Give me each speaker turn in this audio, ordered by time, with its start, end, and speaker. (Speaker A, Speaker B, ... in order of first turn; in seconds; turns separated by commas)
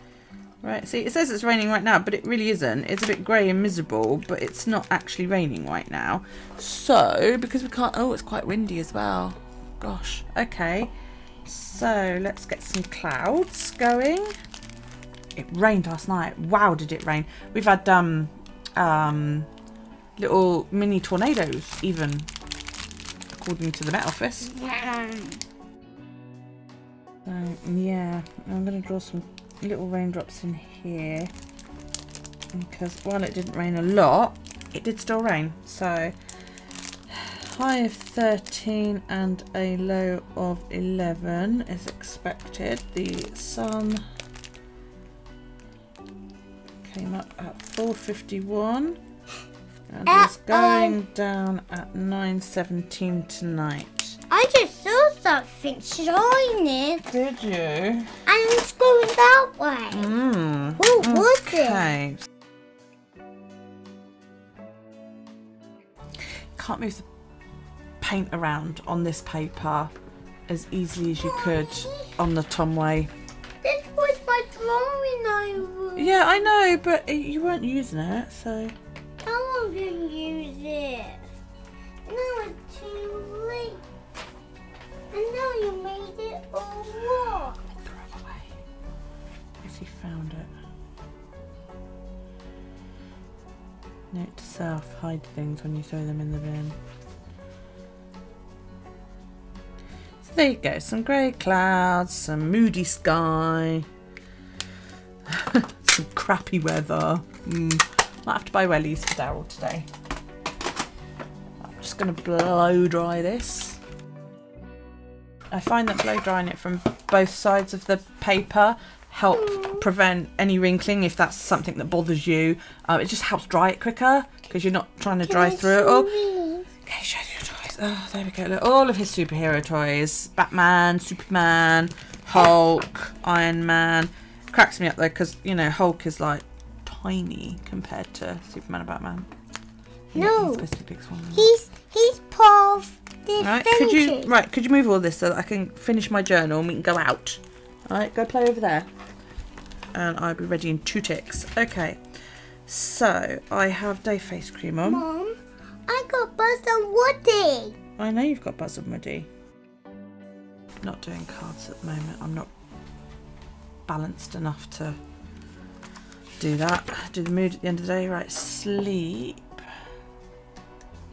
Speaker A: 0.6-10.9, Speaker A: 11.4-14.3, Speaker A: 15.3-19.5, Speaker A: 20.2-22.3, Speaker A: 23.3-24.5, Speaker B: 24.5-25.4, Speaker A: 27.2-31.3, Speaker A: 32.5-36.1, Speaker A: 37.1-44.0, Speaker A: 46.8-49.0, Speaker A: 49.9-54.2, Speaker B: 50.0-51.0, Speaker B: 54.3-57.1, Speaker A: 57.0-58.1, Speaker B: 58.2-60.1, Speaker A: 59.9-62.2, Speaker B: 60.8-61.9, Speaker A: 66.5-67.1, Speaker A: 68.0-69.9, Speaker A: 70.5-73.1, Speaker B: 71.2-72.1, Speaker B: 73.6-76.4, Speaker A: 76.0-78.7, Speaker B: 79.2-81.2, Speaker B: 82.0-83.8, Speaker B: 85.1-87.6, Speaker A: 87.8-88.5, Speaker A: 89.6-90.5, Speaker A: 94.1-96.8, Speaker A: 100.2-103.8, Speaker A: 105.3-109.9, Speaker A: 111.6-113.8, Speaker A: 115.5-126.1, Speaker B: 119.4-119.8, Speaker B: 125.2-126.7, Speaker A: 126.8-139.3, Speaker A: 140.1-141.5, Speaker B: 140.1-140.7, Speaker B: 141.3-144.3, Speaker A: 143.4-148.9, Speaker A: 149.9-152.0, Speaker A: 152.7-155.0, Speaker B: 154.8-157.8, Speaker A: 158.0-159.3, Speaker A: 160.8-162.5, Speaker A: 163.9-165.0, Speaker A: 166.4-169.5